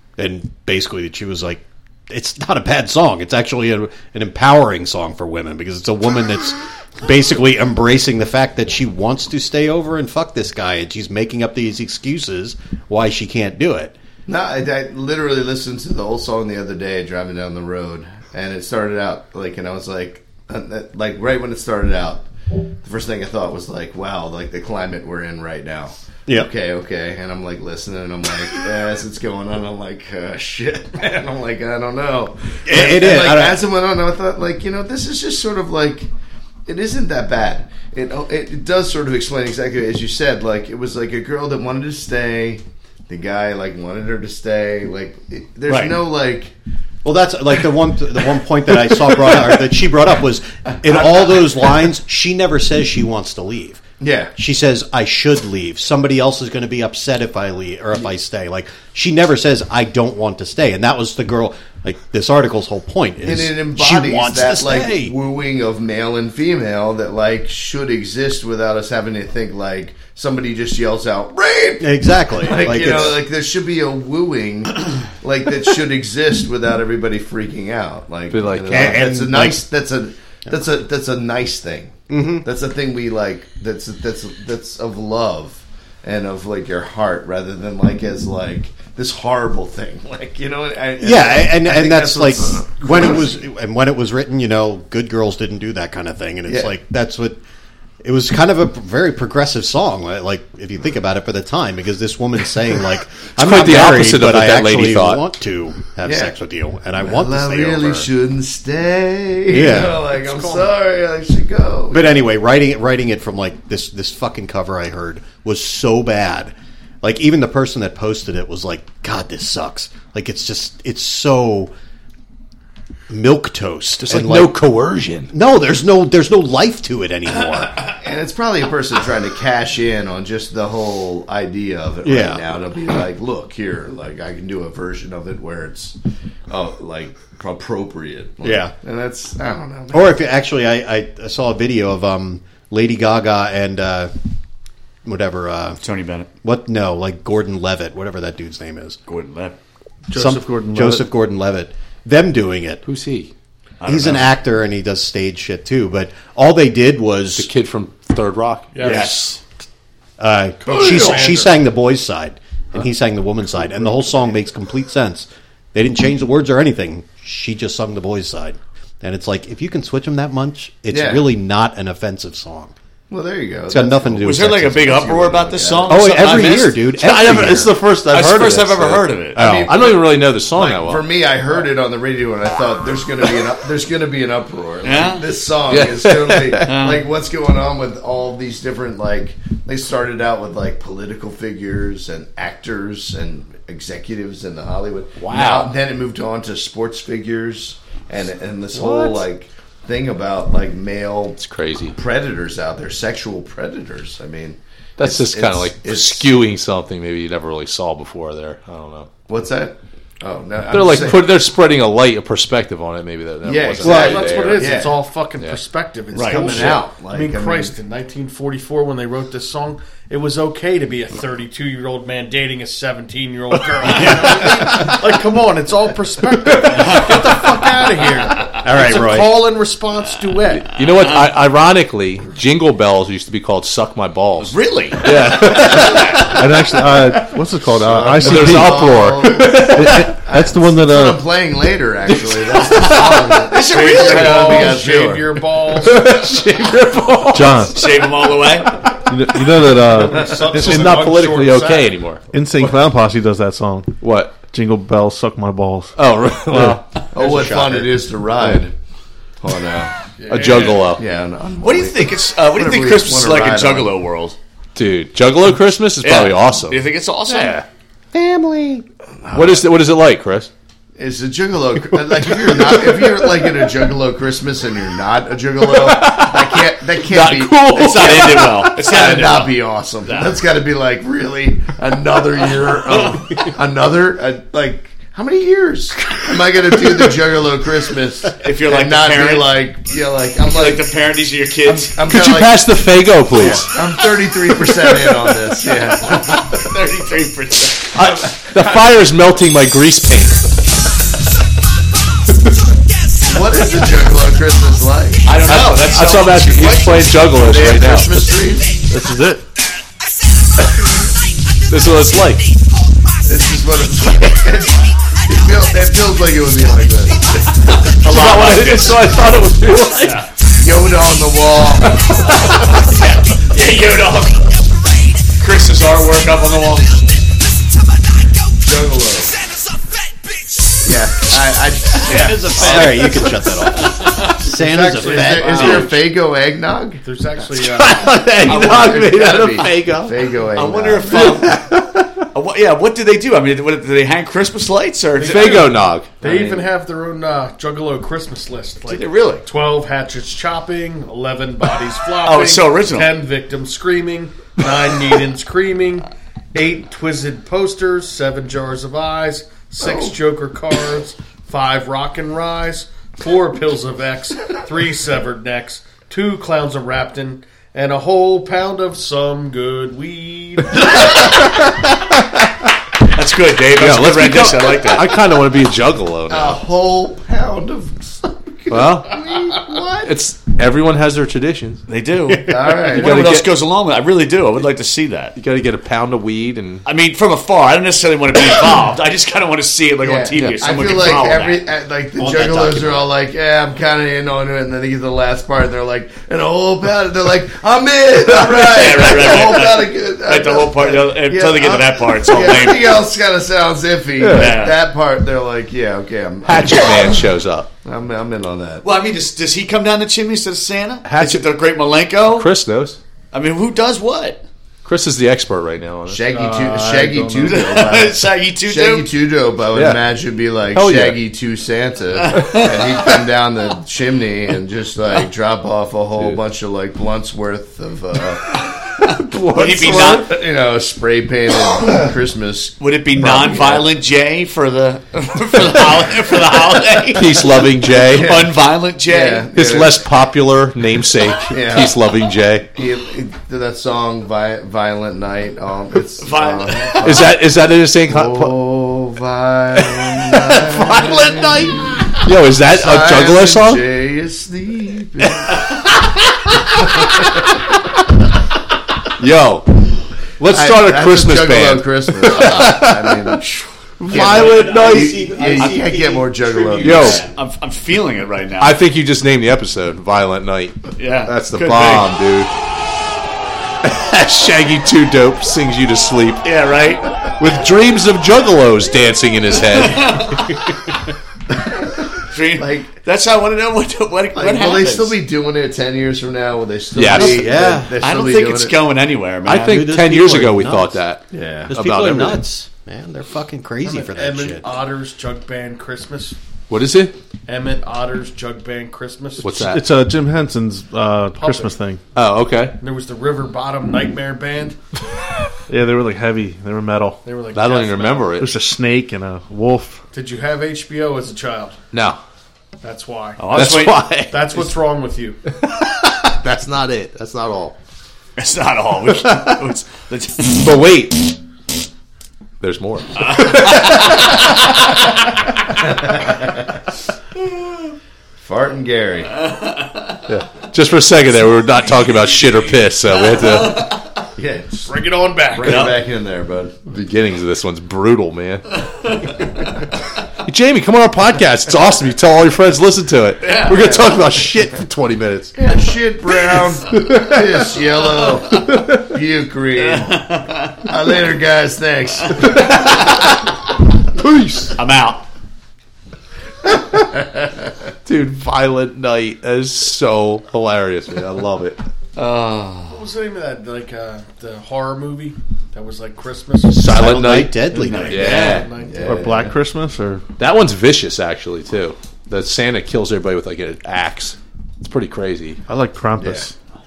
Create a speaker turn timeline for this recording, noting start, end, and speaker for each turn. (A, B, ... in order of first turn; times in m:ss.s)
0:00.2-0:13.9 A
0:14.3-0:22.3 B
0:22.8-0:36.1 B
0:32.6-0:33.6 A
0:36.7-0:46.5 B
0:47.0-0:53.8 A
0:54.0-0:54.3 B
0:54.4-1:05.1 A
1:03.2-1:33.3 B
1:11.8-1:13.2 A
1:18.3-1:19.2 C
1:18.7-1:19.6 A
1:22.1-1:22.4 A
1:31.0-1:37.4 A
1:36.5-1:36.7 B
1:38.0-1:48.1 A
1:43.4-1:45.2 C
1:46.0-1:46.3 B
1:47.0-1:52.1 B
1:49.5-1:50.0 A
1:50.1-1:50.7 D
1:51.9-2:01.7 A
2:03.1-2:04.6 A
2:04.0-2:05.3 C
2:05.3-2:07.8 A
2:07.9-2:16.0 B
2:12.0-2:12.4 A
2:16.5-2:20.2 B
2:18.4-2:18.7 A
2:19.9-2:24.1 A
2:25.0-2:25.8 A
2:25.8-2:26.3 E
2:26.4-2:29.0 A
2:29.1-2:29.6 E
2:30.1-2:32.8 A
2:30.1-2:31.1 F
2:30.1-2:30.4 D
2:32.8-2:33.3 C
2:33.8-2:34.3 E
2:33.8-2:37.5 A
2:37.4-2:38.8 C
2:38.7-2:39.4 D
2:38.8-2:39.4 E
2:40.2-2:52.7 A
2:40.6-2:41.6 D
2:50.9-2:51.3 B
2:53.1-2:56.4 B
2:53.7-2:55.0 A
2:54.2-2:56.8 E
2:55.8-2:57.8 A
2:56.9-3:01.0 C
2:58.0-2:59.4 E
2:59.3-2:59.8 A
2:59.4-3:21.4 B
3:04.8-3:05.2 E
3:05.7-3:06.7 C
3:06.6-3:07.0 E
3:15.2-3:15.7 C
3:18.7-3:19.2 C
3:21.4-3:22.0 C
3:21.9-3:26.3 B
3:25.0-3:29.1 C
3:29.3-3:31.3 B
3:30.7-3:34.7 C
3:33.4-3:35.0 B
3:33.8-3:50.7 D
3:36.1-3:36.7 E
3:36.2-3:37.7 B
3:43.9-3:44.9 A
3:46.8-3:47.1 E
3:48.6-3:49.4 A
3:50.6-3:56.4 C
3:54.4-3:56.4 E
3:56.2-4:01.2 F
3:57.8-4:05.3 B
3:58.2-4:00.1 C
4:02.5-4:03.2 C
4:02.7-4:04.8 E
4:03.6-4:06.1 D
4:05.7-4:07.9 C
4:07.3-4:07.8 F
4:07.7-4:08.9 E
4:09.0-4:10.9 F
4:09.8-4:12.0 D
4:10.4-4:12.2 C
4:12.3-4:15.9 F
4:14.0-4:14.4 C
4:16.0-4:16.8 C
4:16.5-4:16.8 F
4:17.1-4:18.7 B
4:17.2-4:18.0 A
4:19.4-4:19.9 B
4:20.2-4:20.9 D
4:20.3-4:21.0 C
4:20.4-4:20.7 E
4:20.9-4:23.9 B
4:21.6-4:24.4 E
4:24.7-4:27.6 C
4:26.0-4:27.6 E
4:28.1-4:28.8 A
4:29.2-4:29.6 B
4:29.3-4:30.5 C
4:31.0-4:50.9 B
4:35.7-4:39.0 C
4:37.7-4:40.4 E
4:48.4-4:49.5 E
4:50.4-4:51.9 E
4:51.6-4:52.6 B
4:52.1-4:53.7 C
4:53.4-4:56.5 B
4:56.0-4:58.4 E
4:57.9-5:00.4 C
5:03.2-5:05.3 B
5:05.2-5:07.2 E
5:05.4-5:08.3 C
5:07.3-5:08.7 B
5:08.9-5:09.4 F
5:11.7-5:12.5 C
5:13.2-5:17.5 B
5:18.0-5:19.0 E
5:18.0-5:20.2 C
5:20.0-5:20.3 E
5:20.6-5:22.0 B
5:23.4-5:24.5 E
5:25.4-5:27.0 E
5:28.6-5:29.3 B
5:30.8-5:33.2 B
5:32.0-5:33.1 E
5:32.0-5:35.9 A
5:34.0-5:34.3 E
5:34.6-5:35.9 D
5:34.9-5:37.0 B
5:35.6-5:35.9 E
5:37.0-5:38.3 D
5:37.5-5:40.1 C
5:38.4-5:41.4 B
5:38.4-5:39.6 E
5:40.5-5:41.6 E
5:41.1-5:42.0 C
5:42.3-5:46.6 E
5:45.2-6:11.1 D
5:45.2-5:46.1 C
5:48.8-5:49.4 E
5:52.2-5:53.2 E
5:59.8-6:00.1 B
6:13.1-6:15.2 E
6:13.7-6:16.6 C
6:16.3-6:20.1 B
6:18.7-6:21.8 C
6:21.9-6:25.3 E
6:22.4-6:23.2 B
6:22.9-6:23.5 C
6:25.4-6:26.8 C
6:26.8-6:31.6 E
6:30.0-6:47.0 B
6:32.2-6:33.0 E
6:38.3-6:43.0 E
6:44.2-6:44.5 C
6:44.3-6:44.8 E
6:46.4-6:47.7 C
6:47.8-6:48.8 B
6:48.8-6:52.5 E
6:51.0-6:51.5 C
6:52.3-6:53.0 C
6:53.3-6:54.4 E
6:54.8-6:56.2 C
6:56.1-7:08.6 B
6:56.3-6:57.6 F
6:57.4-6:59.1 E
6:59.7-7:00.0 C
7:00.7-7:01.2 C
7:02.2-7:02.8 E
7:09.1-7:10.3 C
7:09.5-7:10.3 E
7:09.9-7:13.9 B
7:12.8-7:19.4 E
7:17.1-7:18.4 C
7:18.1-7:18.5 B
7:19.0-7:20.0 B
7:19.5-7:22.7 C
7:21.5-7:22.0 B
7:22.7-7:27.4 B
7:26.2-7:27.0 E
7:27.0-7:28.5 C
7:28.1-7:35.6 B
7:29.8-7:33.8 C
7:36.8-7:37.4 C
7:39.2-7:39.7 C
7:40.4-7:43.4 C
7:40.5-7:43.5 B
7:44.0-7:45.4 C
7:44.1-7:47.2 B
7:44.1-7:47.4 A
7:46.8-7:47.2 C
7:46.8-7:48.8 E
7:48.6-7:52.5 C
7:51.0-7:52.1 E
7:53.8-7:56.5 C
7:56.4-7:57.1 E
7:57.4-8:00.4 C
7:59.8-8:00.6 E
8:02.3-8:05.2 E
8:02.6-8:03.0 B
8:04.3-8:08.8 B
8:07.0-8:07.5 C
8:07.0-8:07.9 A
8:08.0-8:09.8 E
8:09.4-8:12.4 C
8:09.5-8:11.0 A
8:11.3-8:11.7 B
8:11.7-8:14.7 A
8:13.8-8:16.4 D
8:16.7-8:17.1 C
8:17.5-8:19.7 D
8:19.4-8:19.8 C
8:19.6-8:22.0 F
8:21.3-8:21.8 D
8:22.1-8:22.7 C
8:22.8-8:24.8 D
8:25.7-8:27.2 F
8:27.2-8:28.4 D
8:27.5-8:28.5 C
8:28.4-8:30.0 F
8:30.1-8:31.8 D
8:31.9-8:32.2 C
8:32.8-8:35.4 D
8:33.4-8:34.2 E
8:33.5-8:34.7 C
8:35.6-8:37.8 C
8:38.4-8:40.7 E
8:39.2-8:39.5 C
8:40.4-8:41.3 C
8:42.6-8:44.4 C
8:43.2-8:44.4 E
8:48.4-8:49.4 B
8:50.3-8:53.9 C
8:53.6-8:54.0 E
8:54.4-8:54.9 B
8:54.8-8:55.9 D
8:55.5-8:56.7 B
8:55.6-8:55.9 E
8:56.9-8:58.6 C
9:00.4-9:05.5 C
9:03.5-9:03.9 E
9:05.5-9:12.5 B
9:09.9-9:10.8 E
9:12.4-9:13.2 C
9:14.2-9:14.8 C
9:14.8-9:15.2 E
9:18.0-9:21.8 C
9:22.2-9:23.0 E
9:22.9-9:26.9 D
9:26.7-9:28.7 C
9:26.8-9:28.6 A
9:27.8-9:28.6 E
9:27.8-9:29.2 D
9:28.8-9:29.5 B
9:29.0-9:30.2 F
9:30.4-9:35.6 C
9:35.7-9:36.5 F
9:36.2-9:36.5 B